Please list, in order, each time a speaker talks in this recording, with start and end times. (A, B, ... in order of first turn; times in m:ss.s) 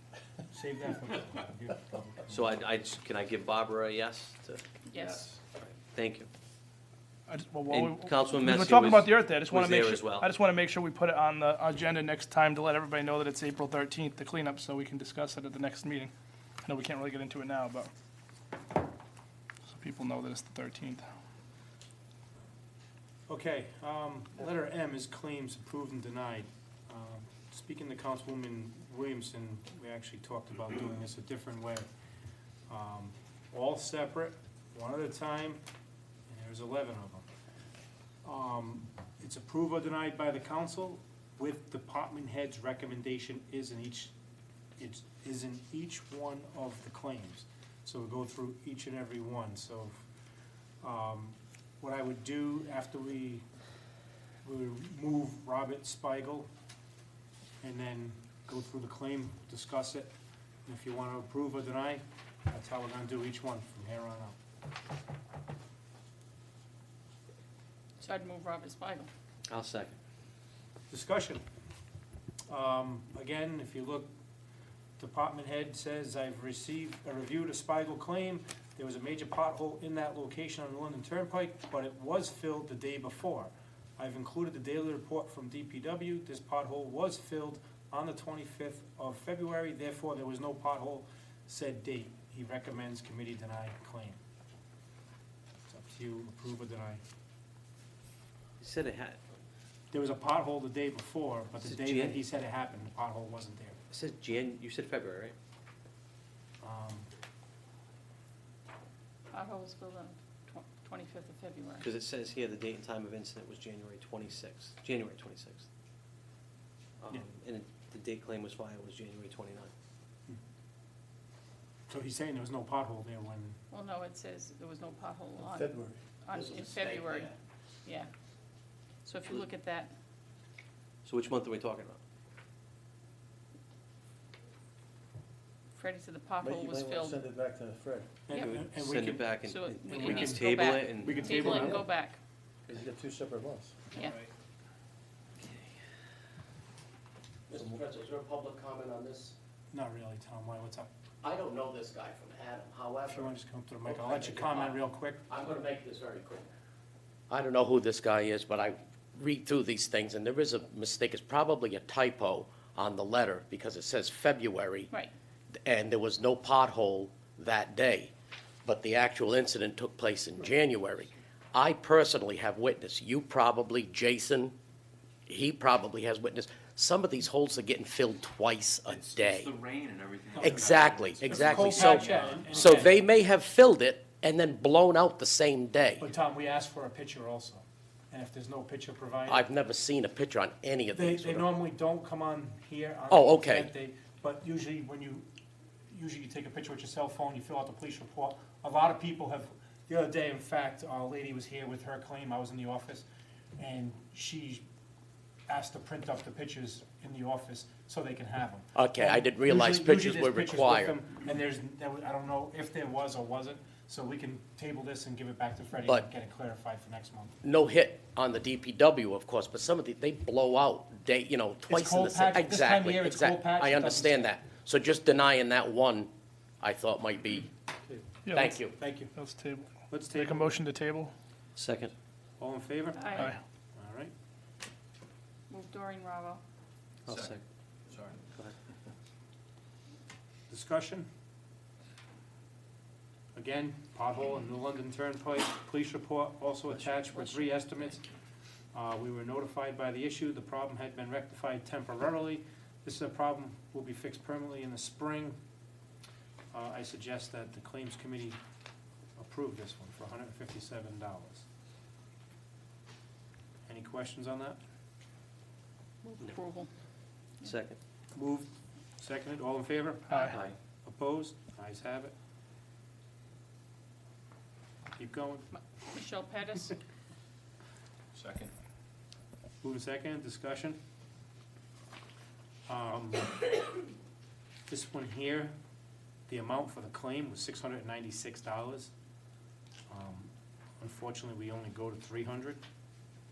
0:00.5-0:02.6 A
0:02.3-0:06.3 B
0:04.9-0:05.3 C
0:07.3-0:16.1 D
0:07.7-0:10.3 B
0:16.6-0:17.9 D
0:19.7-0:21.0 D
0:23.3-0:31.9 A
0:32.7-0:35.6 A
0:36.3-0:37.3 A
0:38.2-0:44.1 A
0:44.8-0:50.0 A
0:50.8-0:53.4 A
0:54.4-0:56.5 A
0:57.6-1:00.1 A
1:00.6-1:04.4 A
1:08.0-1:09.1 C
1:09.5-1:10.0 B
1:10.9-1:11.4 A
1:12.5-1:14.1 A
1:15.0-1:34.2 A
1:35.7-1:37.0 A
1:38.6-1:39.2 B
1:39.9-1:43.8 A
1:41.6-1:42.2 B
1:43.9-1:45.4 B
1:46.6-1:47.1 A
1:49.3-1:51.9 C
1:51.8-1:55.7 B
1:57.0-1:59.7 B
2:01.9-2:03.6 A
2:03.7-2:07.3 C
2:05.4-2:06.0 E
2:06.3-2:07.3 F
2:07.8-2:08.1 C
2:09.0-2:09.9 C
2:11.0-2:12.0 B
2:15.8-2:17.2 C
2:16.4-2:18.1 E
2:18.3-2:21.8 A
2:18.3-2:21.7 B
2:19.4-2:22.2 C
2:21.5-2:21.8 E
2:22.7-2:23.8 E
2:27.5-2:29.4 F
2:27.5-2:27.8 E
2:29.7-2:30.9 A
2:31.2-2:33.3 F
2:33.1-2:35.2 A
2:33.8-2:36.5 F
2:37.3-2:44.9 F
2:45.6-2:48.1 F
2:48.6-2:54.6 F
2:55.3-2:59.5 F
2:58.9-3:02.8 G
3:00.4-3:03.0 A
3:00.4-3:06.1 F
3:06.0-3:09.4 A
3:09.3-3:11.6 F
3:10.9-3:15.3 A
3:13.1-3:13.7 F
3:15.9-3:23.1 A
3:23.6-3:24.6 A
3:25.5-3:37.3 A
3:28.8-3:31.0 F
3:37.4-3:46.1 F
3:41.7-3:44.3 A
3:46.6-3:47.5 F
3:48.3-3:51.1 D
3:48.3-3:48.8 F
3:48.6-3:49.1 A
3:49.9-3:50.5 A
3:51.6-3:51.9 B
3:52.4-3:54.1 A
3:53.0-3:53.3 C
3:55.5-3:56.4 C
3:57.0-3:57.4 B
3:57.9-3:58.2 G
4:00.5-4:01.1 A
4:03.4-4:08.0 A
4:06.8-4:07.3 B
4:08.7-4:15.4 A
4:16.5-4:18.4 A
4:19.2-4:21.4 A
4:23.7-4:24.6 A
4:26.0-4:26.7 C
4:27.4-4:27.8 B
4:28.1-4:32.1 A
4:30.1-4:30.4 D
4:30.3-4:30.6 B
4:35.0-4:35.5 A
4:35.8-4:36.8 C
4:38.2-4:38.5 G
4:39.6-4:40.8 A
4:42.7-4:43.6 A
4:44.7-4:45.5 A
4:46.3-4:48.9 A
4:49.9-4:52.6 A